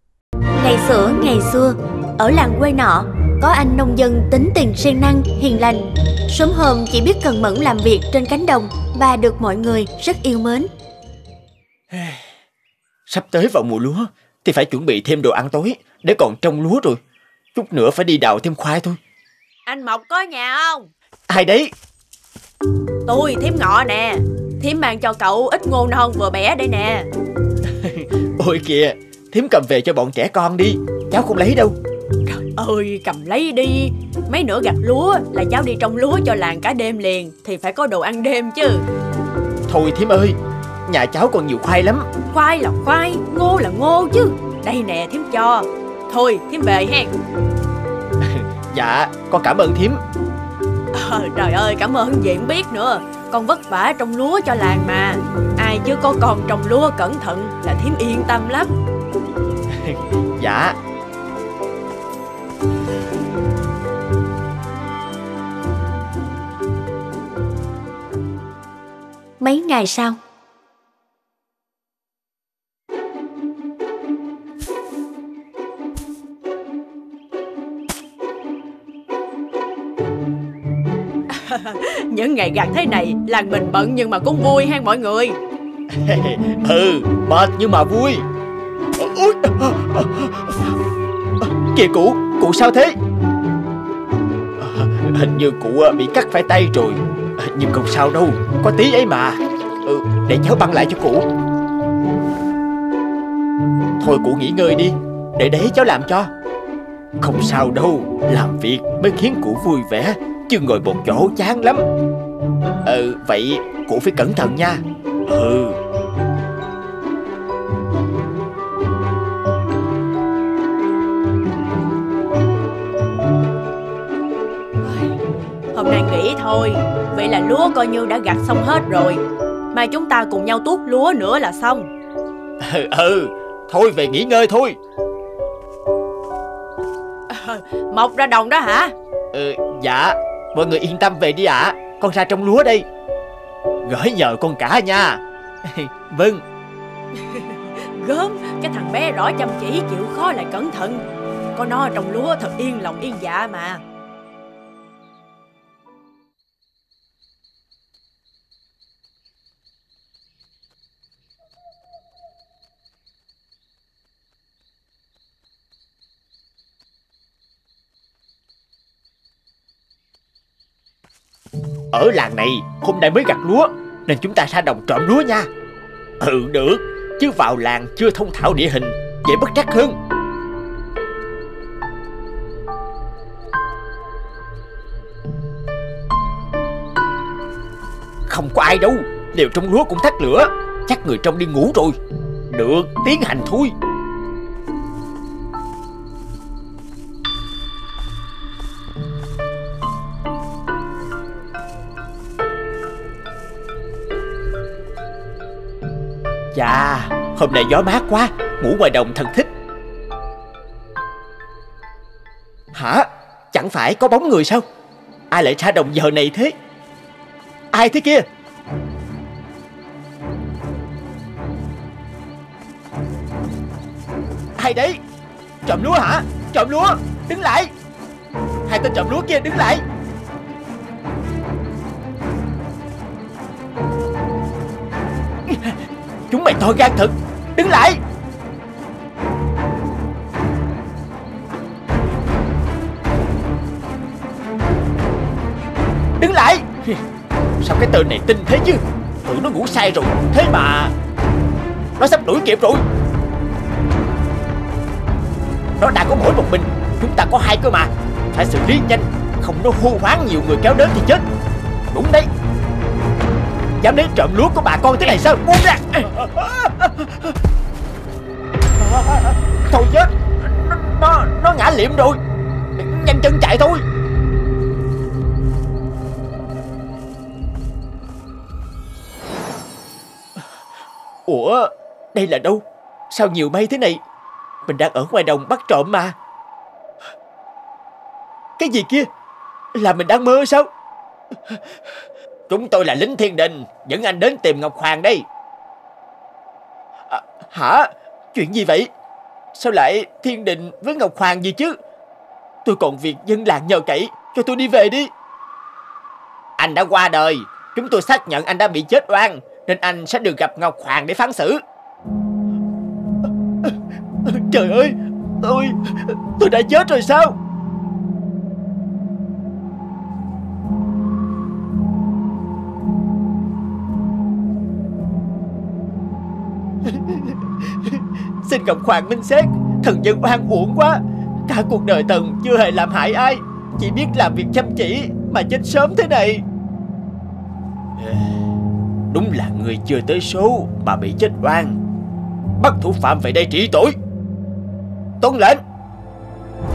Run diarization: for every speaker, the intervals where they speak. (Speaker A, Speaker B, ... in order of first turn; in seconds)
Speaker A: 0.5-10.7, 69.4-70.2
Speaker B: 11.9-12.2, 13.1-17.0, 17.5-19.0, 21.3-21.7, 27.7-31.8, 39.7-42.1, 48.2-50.0, 59.7-60.8, 85.9-88.2, 89.0-90.8, 91.4-93.0, 94.6-101.3, 104.0-106.3, 107.2-111.9, 112.8-115.8, 132.6-134.8, 139.3-142.9, 143.8-146.4, 171.9-175.5, 176.2-180.0, 188.3-192.0, 192.5-193.7, 206.5-209.5, 212.7-214.6, 215.3-216.5, 217.7-218.3, 224.6-225.0, 225.7-227.7, 228.7-229.8, 235.5-235.8, 236.3-238.0, 246.2-247.0, 247.6-250.9, 252.0-252.8, 255.8-261.3, 261.9-262.3, 263.8-267.4, 268.8-272.2, 272.8-273.8, 281.3-284.0, 284.6-286.2, 288.6-289.1, 289.8-290.7, 291.3-291.6, 292.5-295.3, 297.1-298.9, 299.5-301.8, 302.6-305.1, 306.6-311.6, 313.6-317.4, 326.8-336.4, 338.0-338.4, 339.1-341.8, 342.6-343.9, 345.2-345.6
Speaker C: 19.7-20.9, 23.1-27.1, 32.3-38.9, 42.3-47.1, 51.0-58.7, 81.3-85.4, 124.8-125.1, 125.7-129.2, 129.7-131.9, 137.3-138.9, 147.2-151.0, 151.6-153.8